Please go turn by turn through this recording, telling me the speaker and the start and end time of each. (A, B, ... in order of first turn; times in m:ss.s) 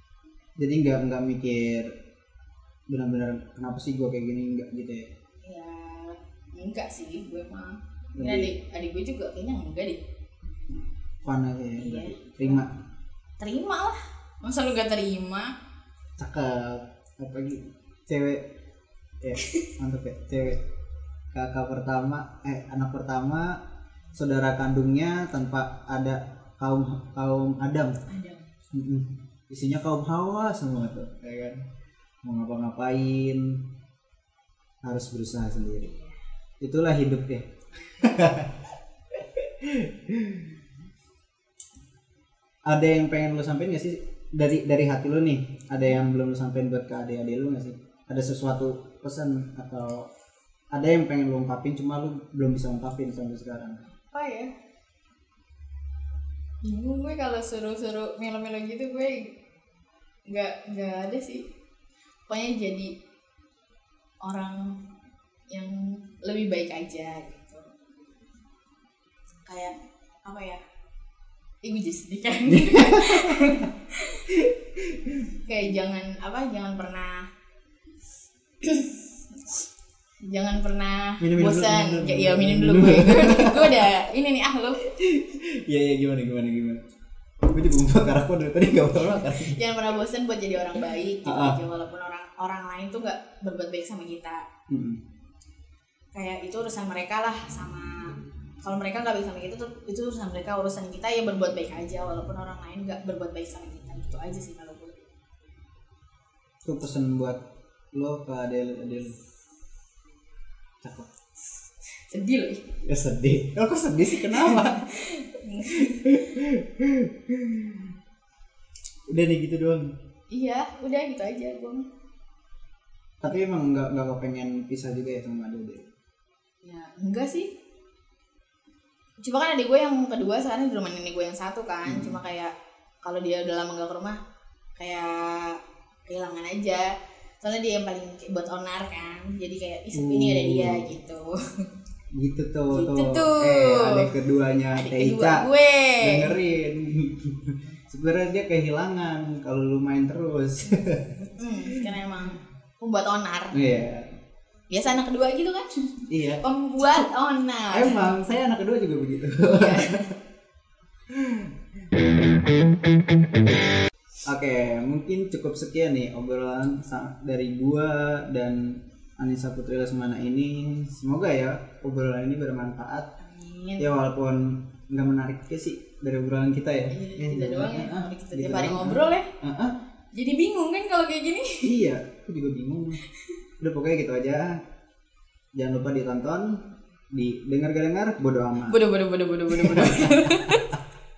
0:00.6-0:01.9 A
0:02.9-0:05.1 A
0:05.4-0:10.0 B
0:08.2-0:08.5 A
0:10.7-0:12.7 A
0:11.8-0:12.6 B
0:13.4-0:15.5 B
0:16.2-0:18.4 A
0:19.2-0:20.6 A
0:19.4-0:19.6 B
0:21.3-0:23.5 A
0:24.2-0:28.0 A
0:28.1-0:28.5 B
0:28.7-0:31.6 A
0:32.2-0:33.6 A
0:34.8-0:35.9 A
0:36.6-0:38.5 A
0:39.2-0:40.5 A
0:42.7-0:50.1 A
0:50.7-0:53.8 A
0:54.1-0:54.5 B
0:56.6-0:59.3 B
1:00.3-1:01.4 B
1:02.3-1:02.9 B
1:04.2-1:04.6 B
1:05.5-1:07.7 B
1:09.4-1:09.7 B
1:10.2-1:10.6 B
1:11.6-1:14.2 B
1:12.5-1:13.4 A
1:15.5-1:17.2 B
1:18.6-1:19.6 B
1:20.3-1:24.8 B
1:21.2-1:23.8 A
1:24.8-1:26.8 A
1:27.5-1:29.6 A
1:28.9-1:34.4 B
1:31.2-1:31.6 A
1:34.7-1:35.0 A
1:36.2-1:45.0 B
1:46.7-1:47.4 A
1:47.9-1:49.2 A
1:50.8-1:51.1 A
1:52.1-1:52.6 B
1:52.8-1:54.9 A
1:54.3-1:56.2 B
1:55.9-1:57.8 A
1:59.1-1:59.9 A
2:00.3-2:01.9 B
2:03.2-2:05.8 A
2:06.6-2:07.5 B
2:09.2-2:12.5 B
2:11.9-2:12.2 A
2:13.0-2:14.2 B
2:14.8-2:16.9 B
2:17.4-2:21.7 B
2:19.9-2:20.9 A
2:22.2-2:25.5 A
2:22.7-2:24.1 B
2:24.7-2:26.4 B
2:26.0-2:31.2 A
2:31.2-2:33.7 B
2:33.5-2:34.1 A
2:34.7-2:38.0 B
2:36.1-2:36.4 A
2:37.7-2:40.0 A
2:39.5-2:40.1 B
2:41.1-2:41.5 A
2:44.3-2:48.6 A
2:49.2-2:53.1 A
2:53.2-2:53.9 B
2:53.8-2:59.7 A
2:56.9-2:59.3 B
3:00.2-3:01.8 B
3:01.6-3:03.0 A
3:03.6-3:04.5 A
3:05.6-3:06.6 A
3:07.1-3:08.8 A
3:08.7-3:10.7 B
3:09.5-3:10.6 A